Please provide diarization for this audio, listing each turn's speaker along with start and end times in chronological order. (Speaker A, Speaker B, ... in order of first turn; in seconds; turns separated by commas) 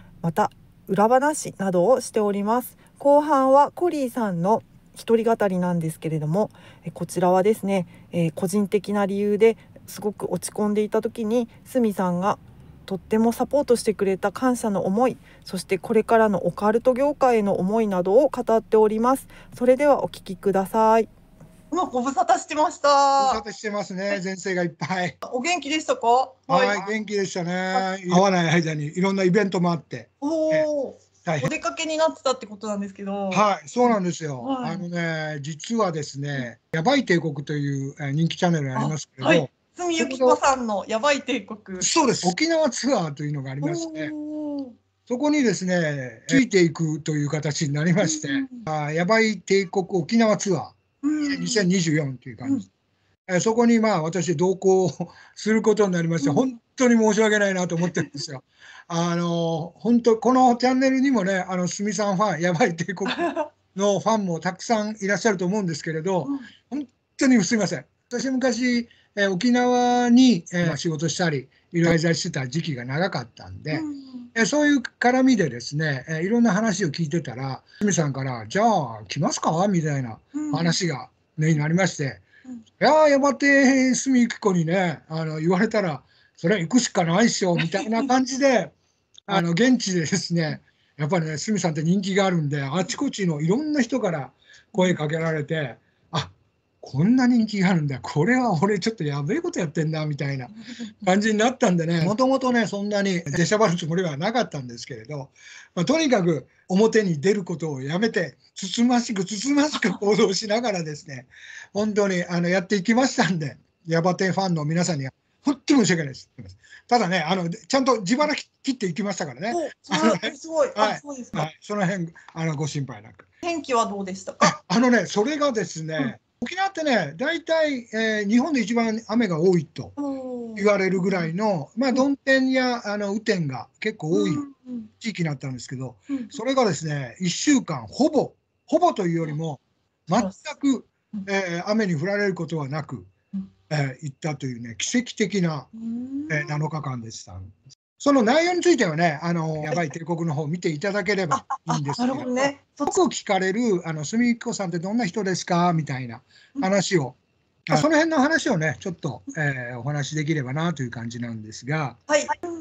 Speaker A: 0.2-21.1, Speaker B: 21.7-23.4, Speaker C: 23.2-25.2, Speaker B: 25.2-26.9, Speaker C: 26.5-30.7, Speaker B: 27.8-28.2, Speaker B: 30.2-33.9, Speaker C: 31.2-31.5, Speaker C: 33.3-40.4, Speaker B: 34.4-34.9, Speaker B: 38.8-41.9, Speaker C: 41.8-44.1, Speaker B: 43.6-44.7, Speaker C: 45.1-52.6, Speaker B: 48.0-48.6, Speaker B: 51.0-51.6, Speaker C: 53.3-82.2, Speaker B: 73.7-74.3, Speaker B: 80.3-80.8, Speaker C: 82.8-88.8, Speaker C: 89.3-123.3, Speaker B: 119.5-121.4, Speaker B: 123.4-124.5, Speaker C: 124.4-130.0, Speaker B: 130.0-131.3, Speaker C: 130.6-134.4, Speaker B: 134.1-134.9, Speaker C: 135.0-143.1, Speaker B: 136.1-136.4, Speaker C: 143.7-145.7, Speaker B: 145.8-146.6, Speaker C: 146.3-162.0, Speaker B: 151.3-152.9, Speaker B: 162.1-162.3